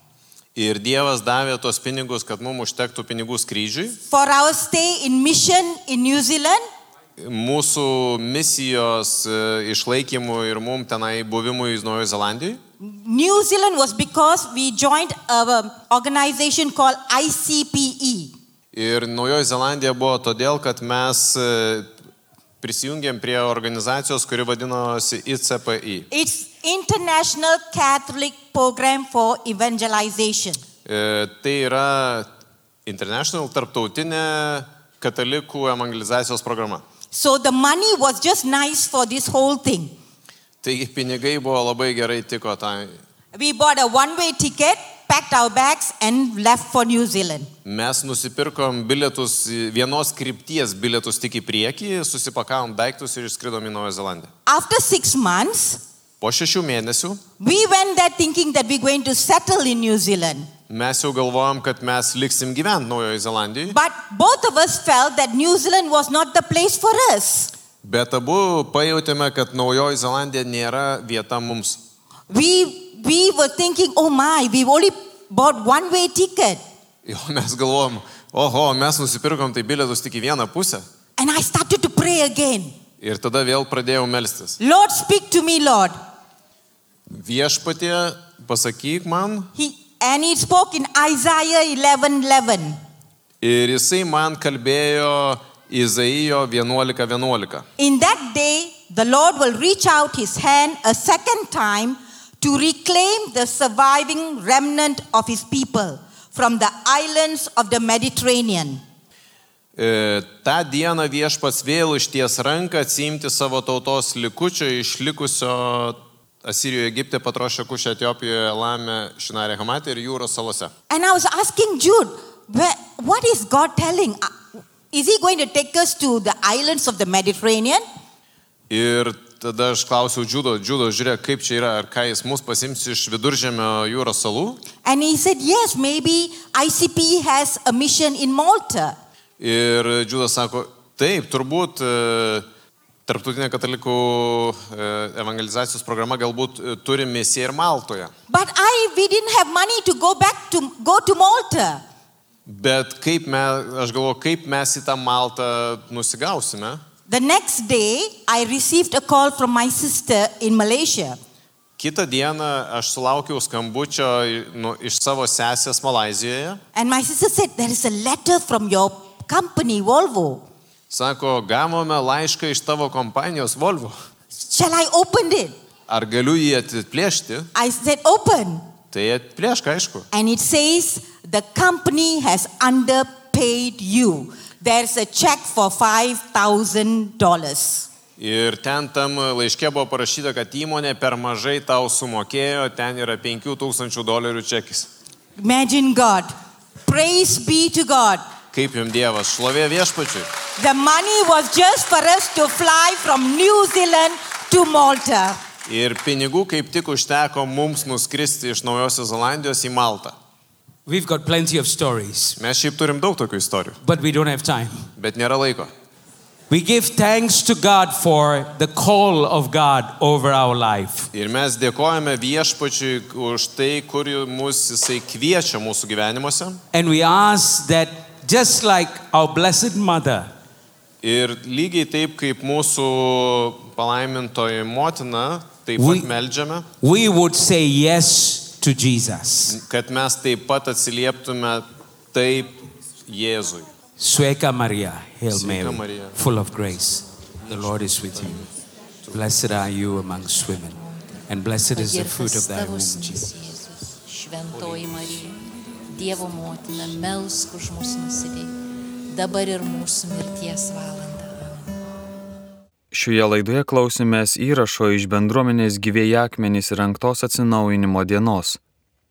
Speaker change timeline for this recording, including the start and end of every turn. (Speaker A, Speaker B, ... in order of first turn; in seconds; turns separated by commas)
Speaker A: 0.6-4.0, Speaker B: 4.1-6.6, Speaker A: 7.2-12.6, Speaker B: 12.8-18.3, Speaker A: 18.7-21.9, Speaker A: 22.6-26.1, Speaker B: 26.1-30.6, Speaker A: 30.9-32.3, Speaker A: 32.9-36.8, Speaker B: 37.1-40.0, Speaker A: 40.6-43.0, Speaker B: 43.3-47.5, Speaker A: 47.6-54.3, Speaker B: 54.5-55.8, Speaker A: 56.2-57.2, Speaker B: 57.4-60.5, Speaker A: 60.7-63.8, Speaker B: 63.7-67.5, Speaker A: 67.8-71.8, Speaker B: 72.3-76.6, Speaker A: 77.0-80.8, Speaker B: 81.2-82.8, Speaker A: 83.0-84.6, Speaker B: 84.6-86.0, Speaker A: 87.1-89.5, Speaker B: 89.5-92.8, Speaker A: 93.4-97.7, Speaker B: 97.8-108.8, Speaker A: 109.8-120.7, Speaker B: 120.9-127.8, Speaker A: 128.7-134.6, Speaker B: 134.8-139.0, Speaker A: 139.4-142.5, Speaker A: 143.1-148.1, Speaker B: 148.3-151.8, Speaker A: 152.5-156.8, Speaker B: 157.1-161.2, Speaker A: 161.8-166.6, Speaker B: 166.8-170.4, Speaker A: 170.9-173.9, Speaker B: 174.3-175.6, Speaker A: 175.9-177.5, Speaker B: 177.6-178.7, Speaker A: 178.9-180.1, Speaker B: 180.1-187.9, Speaker A: 188.2-194.9, Speaker B: 195.4-196.3, Speaker B: 196.8-198.2, Speaker A: 198.5-200.3, Speaker B: 200.6-205.4, Speaker A: 205.7-210.2, Speaker C: 210.9-212.4, Speaker A: 212.4-213.8, Speaker C: 213.8-214.9, Speaker A: 215.0-215.7, Speaker C: 216.5-221.1, Speaker A: 221.1-226.6, Speaker C: 226.7-230.3, Speaker A: 231.0-236.7, Speaker C: 235.8-236.1, Speaker C: 236.8-239.6, Speaker A: 239.5-243.7, Speaker C: 244.0-248.5, Speaker A: 245.3-246.2, Speaker C: 249.1-250.8, Speaker D: 250.5-258.5, Speaker C: 251.3-253.3, Speaker D: 259.1-261.8, Speaker E: 262.9-268.6